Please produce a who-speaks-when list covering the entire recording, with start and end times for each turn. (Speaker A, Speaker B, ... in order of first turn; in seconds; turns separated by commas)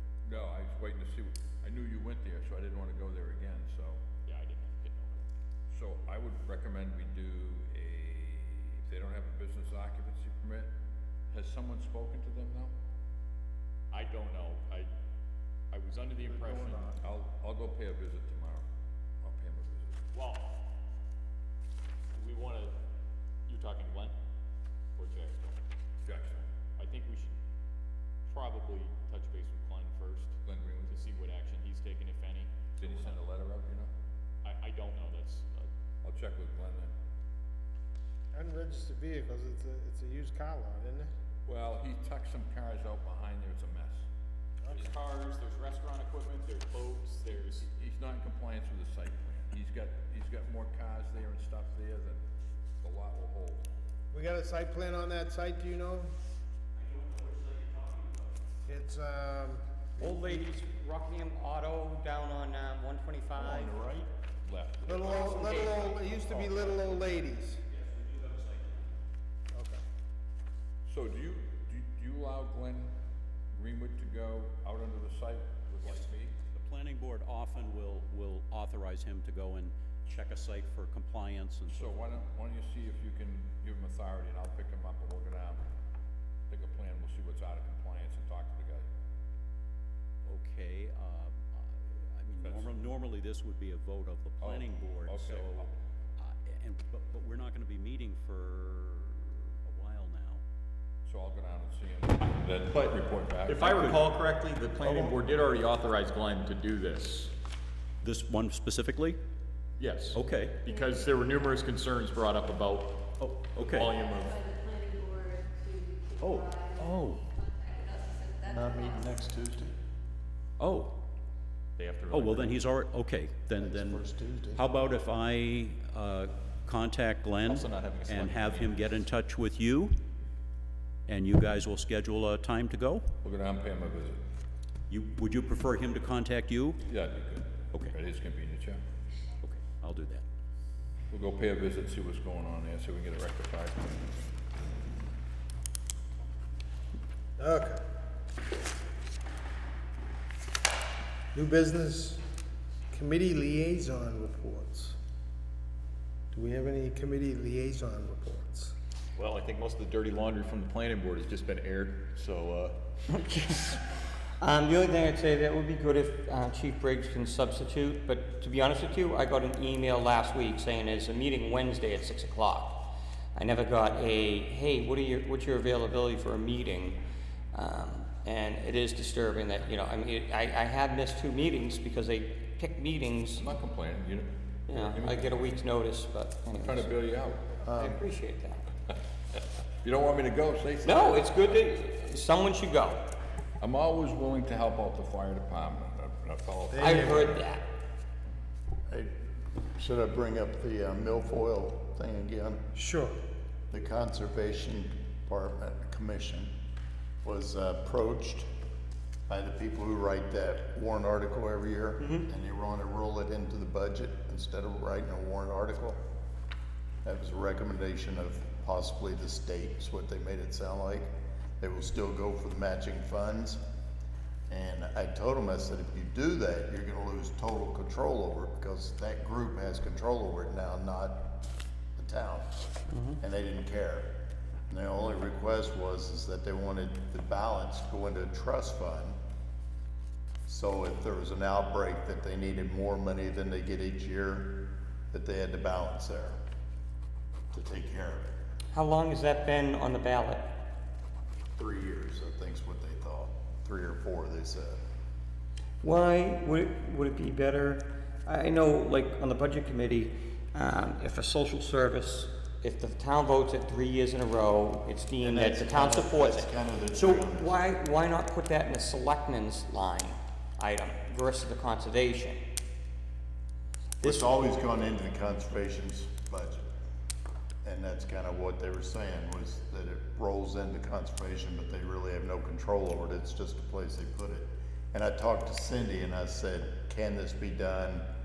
Speaker A: 0.2-4.0, Speaker B: 4.3-5.3, Speaker A: 5.7-10.7, Speaker A: 11.3-12.7, Speaker B: 13.9-14.9, Speaker B: 15.7-16.7, Speaker C: 16.2-17.0, Speaker A: 16.4-18.6, Speaker A: 19.2-20.0, Speaker B: 20.1-20.5, Speaker B: 22.1-22.8, Speaker B: 23.5-24.1, Speaker B: 25.0-25.6, Speaker A: 26.1-26.5, Speaker B: 26.8-27.4, Speaker B: 28.3-33.1, Speaker A: 30.5-31.0, Speaker A: 32.8-33.9, Speaker B: 34.4-35.7, Speaker A: 36.0-36.9, Speaker C: 38.3-41.1, Speaker A: 41.5-44.1, Speaker C: 44.6-45.0, Speaker B: 44.7-47.7, Speaker A: 47.7-52.2, Speaker A: 52.8-53.7, Speaker C: 54.1-56.1, Speaker C: 58.7-60.5, Speaker D: 60.0-63.8, Speaker A: 64.5-66.0, Speaker C: 64.9-67.6, Speaker D: 65.0-66.0, Speaker C: 69.5-69.8, Speaker A: 70.9-72.9, Speaker A: 73.5-76.3, Speaker E: 76.5-82.0, Speaker A: 81.7-85.6, Speaker A: 86.5-88.9, Speaker E: 90.3-100.4, Speaker A: 92.4-92.8, Speaker A: 94.4-95.7, Speaker A: 101.1-104.0, Speaker B: 103.5-107.3, Speaker E: 103.8-104.0, Speaker E: 108.0-109.2, Speaker B: 109.8-113.0, Speaker E: 110.1-110.6, Speaker F: 110.7-111.4, Speaker E: 113.2-114.0, Speaker B: 113.6-114.4, Speaker F: 114.0-119.2, Speaker E: 116.2-117.2, Speaker G: 118.5-119.8, Speaker E: 120.6-121.0, Speaker B: 121.8-122.6, Speaker E: 122.1-129.9, Speaker G: 123.6-124.6, Speaker B: 127.5-128.8, Speaker E: 131.1-133.1, Speaker A: 133.2-134.2, Speaker E: 134.9-136.8, Speaker A: 136.9-138.8, Speaker E: 137.7-138.0, Speaker E: 139.4-140.2, Speaker A: 141.1-144.1, Speaker C: 147.4-147.8, Speaker C: 151.3-152.2, Speaker C: 152.9-155.0, Speaker C: 156.3-158.7, Speaker B: 159.2-162.8, Speaker D: 163.1-163.8, Speaker D: 164.4-177.0, Speaker D: 177.5-183.4, Speaker A: 183.4-185.5, Speaker D: 184.7-186.9, Speaker A: 186.5-187.6, Speaker D: 187.7-188.6, Speaker A: 189.8-191.5, Speaker D: 190.8-193.1, Speaker A: 193.6-197.4, Speaker C: 196.7-197.3, Speaker D: 196.8-197.7, Speaker G: 199.8-202.7, Speaker C: 202.7-203.2, Speaker G: 203.7-206.5, Speaker G: 207.2-208.5, Speaker G: 209.3-216.0, Speaker D: 212.0-212.3, Speaker G: 217.0-223.6, Speaker G: 224.5-231.2, Speaker G: 232.0-232.5, Speaker D: 232.9-233.2, Speaker G: 233.2-234.1, Speaker G: 234.7-239.2, Speaker G: 240.5-244.6, Speaker G: 245.1-246.4, Speaker G: 247.5-248.3, Speaker D: 248.7-250.5, Speaker G: 251.6-254.8, Speaker D: 255.8-272.4, Speaker G: 265.2-267.6, Speaker G: 274.0-276.7, Speaker D: 274.0-274.3, Speaker G: 277.6-288.1